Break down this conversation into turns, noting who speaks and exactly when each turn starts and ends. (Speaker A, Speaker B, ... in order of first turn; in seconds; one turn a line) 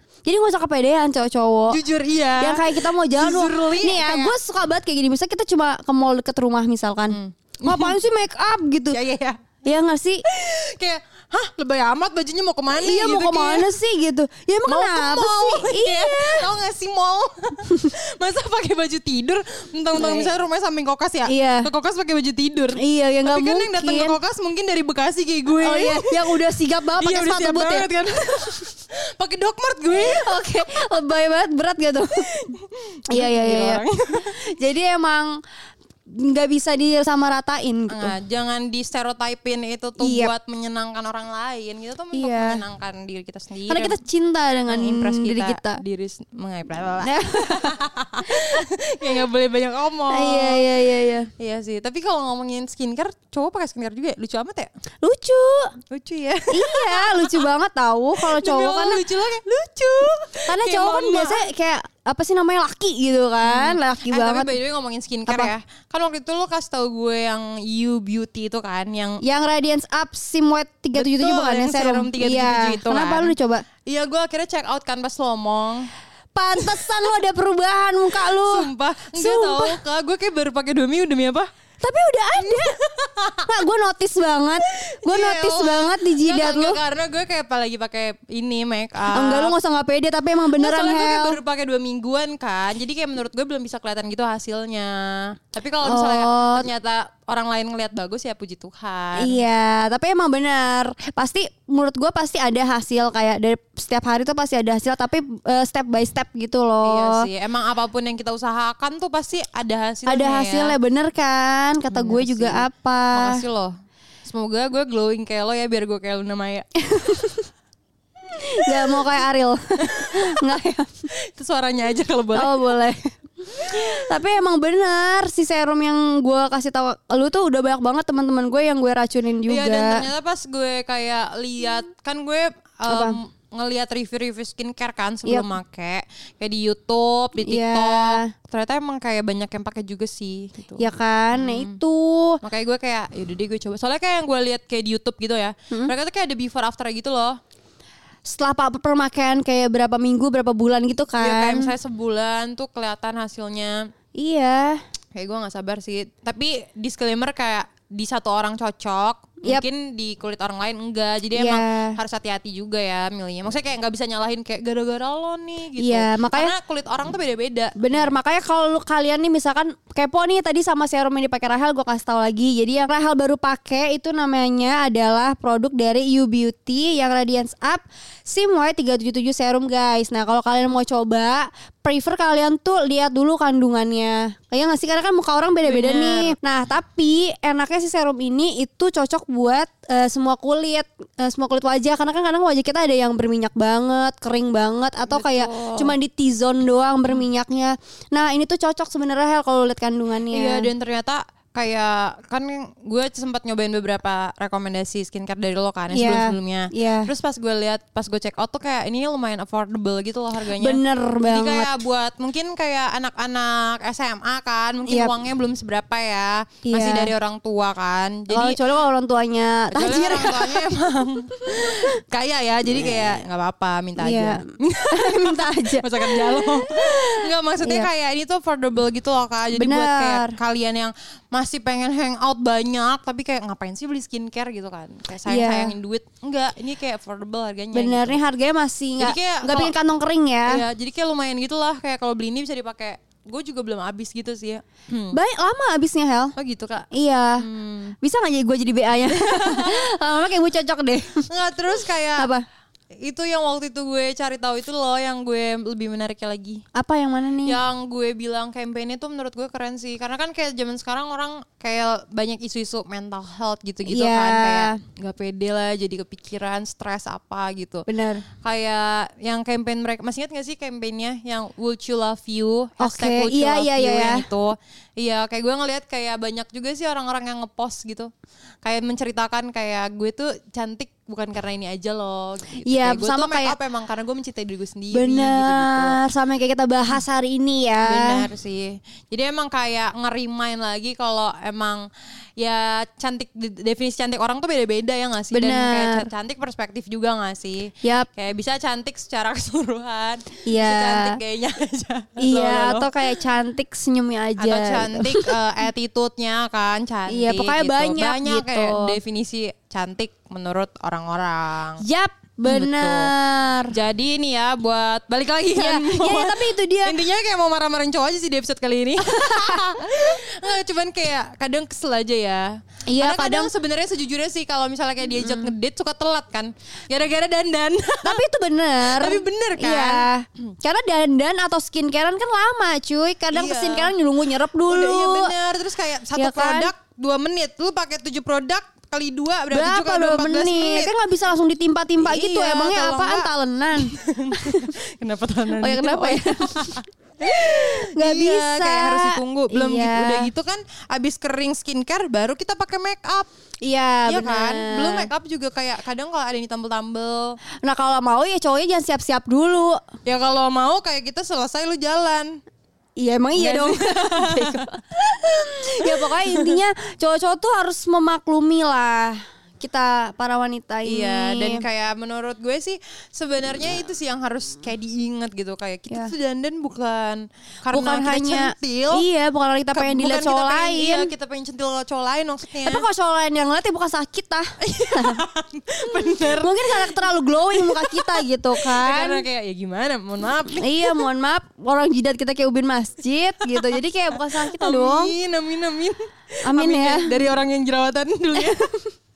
Speaker A: 0.2-1.8
Speaker B: 1.7-4.3
Speaker A: 2.4-9.0
Speaker B: 7.1-8.0
Speaker B: 8.9-9.4
Speaker A: 9.7-10.2
Speaker B: 10.3-13.7
Speaker A: 12.8-16.5
Speaker B: 14.7-26.4
Speaker A: 20.0-20.3
Speaker A: 21.3-21.7
Speaker A: 22.8-24.2
Speaker A: 25.6-27.9
Speaker B: 27.0-30.5
Speaker A: 29.9-32.3
Speaker B: 32.5-34.3
Speaker A: 33.1-33.8
Speaker A: 34.4-35.4
Speaker A: 36.1-38.1
Speaker B: 37.9-44.0
Speaker A: 40.0-40.3
Speaker A: 42.1-42.6
Speaker A: 43.7-45.8
Speaker B: 44.7-50.6
Speaker A: 47.0-47.7
Speaker A: 48.3-48.6
Speaker A: 50.1-51.3
Speaker B: 51.4-54.7
Speaker A: 55.0-55.7
Speaker B: 55.9-57.4
Speaker A: 56.5-59.0
Speaker B: 58.2-61.4
Speaker A: 60.5-64.5
Speaker B: 63.4-69.2
Speaker A: 69.2-73.6
Speaker B: 71.0-73.3
Speaker B: 73.9-75.9
Speaker A: 76.3-79.8
Speaker B: 76.6-76.9
Speaker B: 78.2-81.5
Speaker A: 81.8-82.8
Speaker B: 82.4-83.5
Speaker A: 83.5-86.8
Speaker B: 84.7-89.5
Speaker A: 89.1-91.4
Speaker B: 90.5-99.4
Speaker A: 95.8-96.7
Speaker A: 99.2-107.3
Speaker B: 106.8-110.8
Speaker A: 110.1-113.4
Speaker B: 111.9-113.7
Speaker B: 114.2-116.7
Speaker A: 116.8-117.5
Speaker A: 118.4-120.9
Speaker B: 119.8-120.4
Speaker B: 121.3-122.6
Speaker A: 122.4-130.1
Speaker B: 129.5-141.8
Speaker A: 132.9-133.2
Speaker A: 137.4-138.3
Speaker A: 140.8-142.4
Speaker B: 142.4-147.4
Speaker A: 148.3-151.7
Speaker B: 151.2-153.9
Speaker A: 154.2-154.8
Speaker B: 155.2-168.1
Speaker A: 161.3-162.0
Speaker A: 165.8-166.5
Speaker A: 167.8-200.7
Speaker B: 185.7-186.4
Speaker B: 195.1-195.9
Speaker B: 200.3-218.6
Speaker A: 205.9-207.1
Speaker A: 210.6-211.7
Speaker A: 214.9-215.1
Speaker A: 216.7-217.1
Speaker A: 218.3-220.6
Speaker B: 219.7-238.2
Speaker A: 221.5-221.8
Speaker A: 222.8-223.1
Speaker A: 224.0-227.9
Speaker A: 229.6-230.4
Speaker A: 235.3-235.7
Speaker A: 237.7-240.6
Speaker B: 239.0-239.7
Speaker B: 240.5-245.2
Speaker A: 245.1-246.3
Speaker B: 246.4-247.9
Speaker A: 246.9-247.4
Speaker A: 248.0-251.3
Speaker B: 249.1-249.8
Speaker B: 251.3-252.3
Speaker A: 252.2-252.4
Speaker B: 253.0-256.6
Speaker A: 256.8-257.6
Speaker B: 257.4-267.9
Speaker A: 263.9-264.8
Speaker A: 267.9-268.2
Speaker B: 268.4-278.1
Speaker A: 272.8-274.2
Speaker B: 278.6-286.0
Speaker A: 282.6-283.6
Speaker A: 284.9-288.2
Speaker B: 287.9-302.9
Speaker A: 295.3-296.1
Speaker A: 300.5-301.2
Speaker A: 302.2-305.3
Speaker B: 304.4-311.8
Speaker A: 307.1-309.0
Speaker A: 311.8-313.7
Speaker B: 312.4-313.1
Speaker B: 313.7-328.2
Speaker A: 315.6-317.0
Speaker A: 319.1-320.0
Speaker A: 322.9-323.5
Speaker A: 325.2-325.5
Speaker A: 328.0-335.3
Speaker B: 328.9-330.1
Speaker B: 333.3-333.9
Speaker B: 334.7-340.9
Speaker A: 336.2-336.7
Speaker A: 339.5-344.7
Speaker B: 342.0-353.3
Speaker A: 345.6-350.3
Speaker A: 353.6-355.1
Speaker B: 354.1-357.4
Speaker A: 357.6-359.8
Speaker B: 360.1-362.4
Speaker A: 363.0-371.6
Speaker B: 363.4-364.6
Speaker B: 365.8-366.6
Speaker B: 370.9-379.1
Speaker A: 377.7-381.1
Speaker B: 379.7-382.9
Speaker A: 382.7-385.2
Speaker B: 384.6-391.0
Speaker A: 385.9-389.2
Speaker A: 390.6-395.1
Speaker B: 393.5-396.0
Speaker A: 396.4-397.1
Speaker B: 396.5-398.7
Speaker A: 398.4-398.6